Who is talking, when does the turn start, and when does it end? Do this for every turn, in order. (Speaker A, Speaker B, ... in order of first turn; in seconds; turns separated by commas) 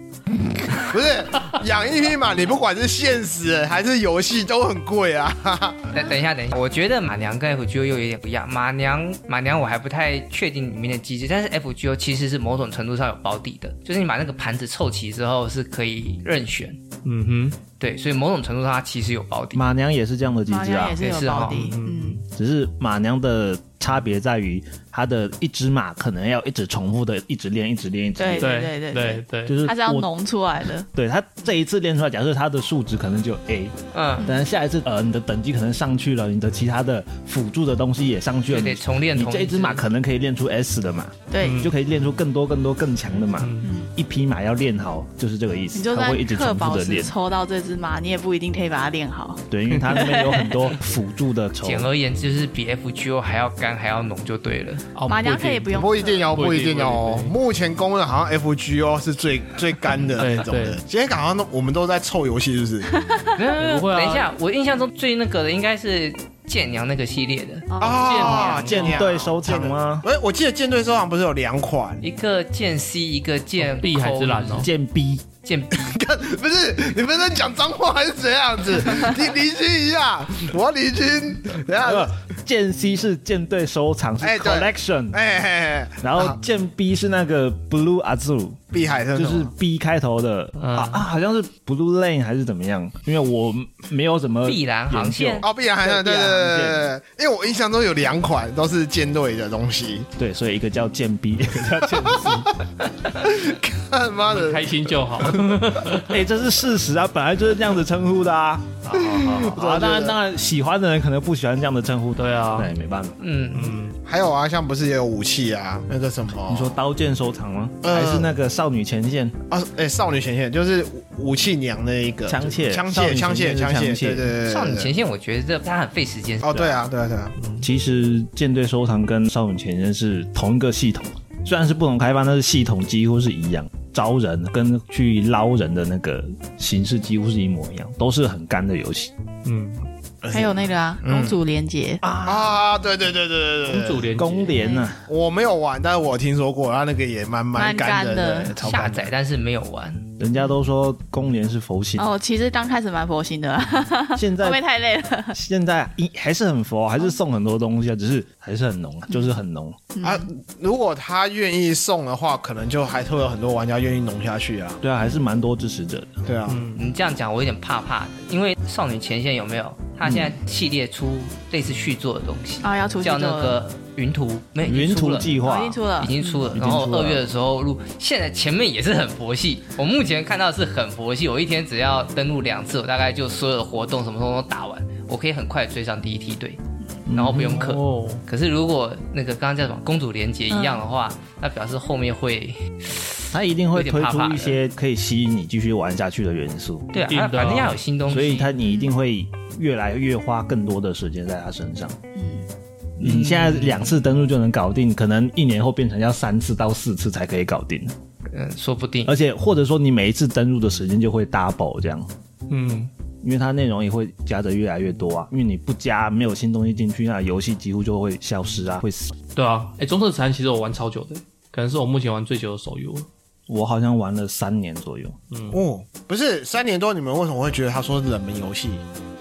Speaker A: 0.8-6.0, Speaker B: 5.9-16.8, Speaker C: 17.0-17.6, Speaker B: 17.8-19.6, Speaker D: 19.5-21.0, Speaker E: 20.5-22.2, Speaker B: 21.0-21.7, Speaker C: 21.7-22.2, Speaker D: 22.3-28.6, Speaker E: 28.2-30.9, Speaker C: 28.4-29.6, Speaker D: 29.5-30.1, Speaker D: 30.9-47.1, Speaker B: 33.9-34.3, Speaker B: 38.5-39.8, Speaker E: 41.3-41.6, Speaker C: 41.4-41.7, Speaker C: 43.4-43.7, Speaker E: 43.6-43.9, Speaker E: 45.7-50.6, Speaker D: 49.5-51.9, Speaker B: 51.6-54.9, Speaker C: 54.9-57.3, Speaker E: 55.1-56.3, Speaker A: 55.7-62.9, Speaker C: 60.2-60.8, Speaker E: 62.9-63.3, Speaker B: 63.4-67.7, Speaker C: 63.5-64.3, Speaker A: 67.8-72.0, Speaker C: 67.8-69.1, Speaker D: 68.2-70.0, Speaker B: 72.0-74.7, Speaker C: 73.6-74.7, Speaker D: 74.6-75.2, Speaker B: 75.4-75.9, Speaker A: 75.7-82.2, Speaker D: 81.8-85.2, Speaker A: 84.2-86.4, Speaker D: 86.0-88.6, Speaker A: 88.7-89.5, Speaker D: 89.1-96.9, Speaker C: 90.6-91.0, Speaker B: 94.4-95.5, Speaker A: 95.4-100.1, Speaker D: 100.2-102.5, Speaker A: 102.0-102.4, Speaker A: 103.1-105.4, Speaker C: 104.3-106.2, Speaker D: 106.0-113.2, Speaker C: 108.9-109.6, Speaker A: 108.9-110.2, Speaker C: 112.2-112.7, Speaker B: 113.2-113.8, Speaker C: 113.5-114.0, Speaker A: 114.0-116.7, Speaker D: 116.5-119.3, Speaker A: 117.8-118.3, Speaker A: 119.5-124.9, Speaker D: 122.3-124.3, Speaker B: 124.4-126.8, Speaker A: 126.4-127.3, Speaker C: 127.4-127.7, Speaker D: 127.6-139.1, Speaker C: 139.4-139.8, Speaker A: 140.2-141.4, Speaker E: 140.3-142.0, Speaker D: 142.0-142.6, Speaker A: 142.2-144.1, Speaker C: 143.7-144.6, Speaker D: 144.2-145.1, Speaker E: 144.6-144.9, Speaker A: 145.0-149.1, Speaker E: 147.5-148.6, Speaker B: 148.6-150.1, Speaker D: 150.2-152.1, Speaker E: 151.9-155.3, Speaker D: 154.2-154.6, Speaker D: 155.3-159.8, Speaker E: 159.9-160.3, Speaker A: 160.0-164.8, Speaker D: 164.8-166.2, Speaker A: 166.2-166.6, Speaker C: 166.5-166.8, Speaker B: 166.8-175.3, Speaker D: 170.0-170.3, Speaker E: 172.6-173.6, Speaker D: 174.6-175.8, Speaker E: 175.4-176.5, Speaker B: 176.0-186.6, Speaker D: 176.5-177.2, Speaker D: 187.1-187.7, Speaker B: 187.1-194.6, Speaker C: 187.4-188.2, Speaker E: 190.5-190.8, Speaker D: 193.3-196.9, Speaker B: 196.9-198.5, Speaker C: 197.1-197.8, Speaker D: 198.1-202.0, Speaker E: 202.1-202.4, Speaker D: 203.0-207.9, Speaker B: 203.0-203.9, Speaker B: 208.3-209.1, Speaker D: 209.0-212.1, Speaker C: 212.5-212.9, Speaker D: 213.2-219.1, Speaker C: 219.3-223.1, Speaker D: 223.5-225.2, Speaker C: 225.3-225.6, Speaker A: 225.5-228.8